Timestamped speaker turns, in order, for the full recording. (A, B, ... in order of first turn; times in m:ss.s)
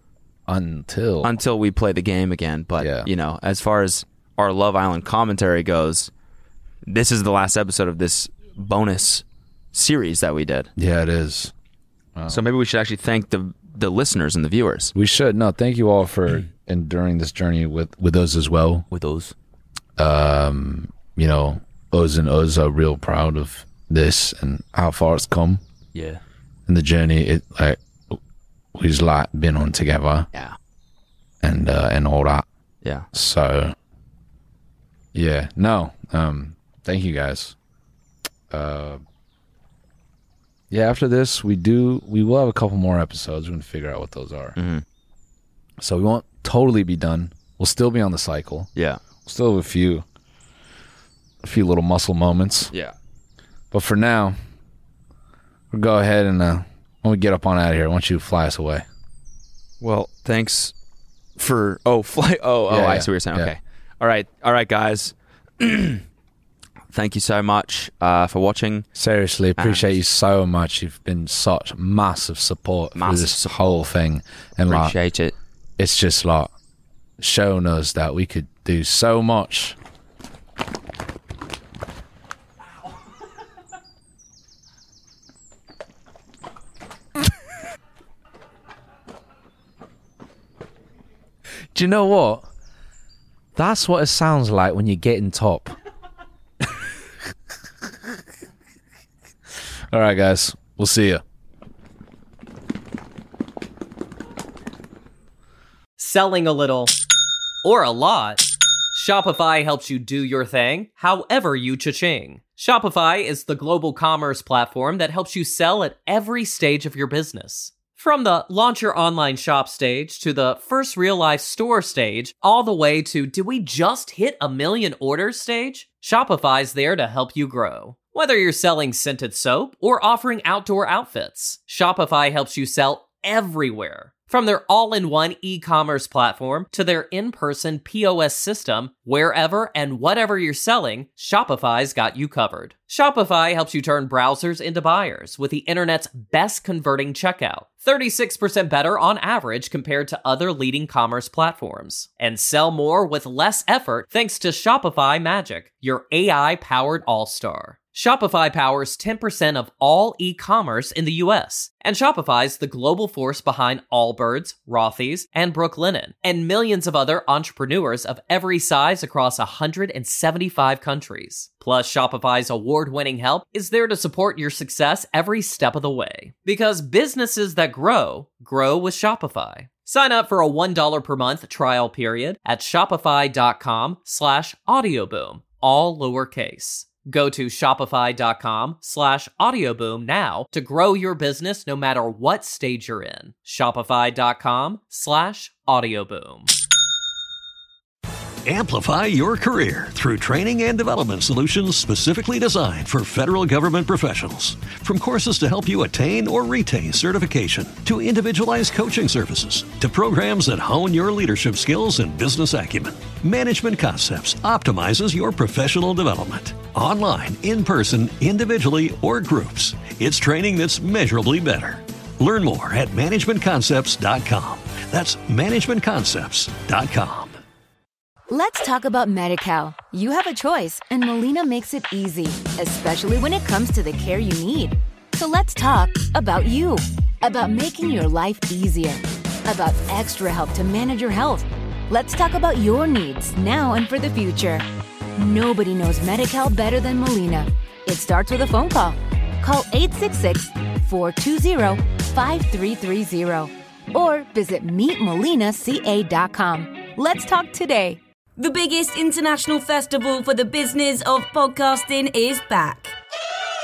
0:00.5-0:01.4 A
0:01.2-0:06.1 B
0:02.8-0:03.1 A
0:06.9-0:10.7 B
0:10.8-0:11.5 A
0:12.2-0:12.4 A
0:12.3-0:14.9 B
0:14.9-0:18.9 A
0:18.9-0:19.3 B
0:20.0-0:25.6 A
0:25.9-0:26.2 B
0:26.7-0:28.2 A
0:28.7-0:30.3 A
0:31.4-0:32.4 A
0:33.1-0:33.8 A
0:35.1-0:37.6 A
0:38.5-0:39.0 A
0:40.7-0:44.6 A
0:44.6-0:44.8 B
0:45.8-0:48.7 A
0:48.8-0:49.0 B
0:49.2-0:50.0 A
0:51.4-0:52.7 A
0:53.7-0:54.4 A
0:55.7-0:58.8 A
0:59.8-1:00.7 B
1:01.4-1:06.0 B
1:02.7-1:03.5 A
1:06.9-1:08.9 B
1:09.0-1:14.9 A
1:09.6-1:09.9 B
1:13.0-1:13.8 B
1:14.7-1:15.4 B
1:15.8-1:16.5 A
1:17.2-1:19.8 A
1:31.7-1:32.5 A
1:33.6-1:35.8 A
1:39.9-1:41.2 A
1:46.0-1:46.9 C
1:47.6-3:16.5 C
3:18.4-3:47.4 D
3:48.3-4:04.6 E
4:05.2-4:18.0 E
4:18.4-4:23.0 F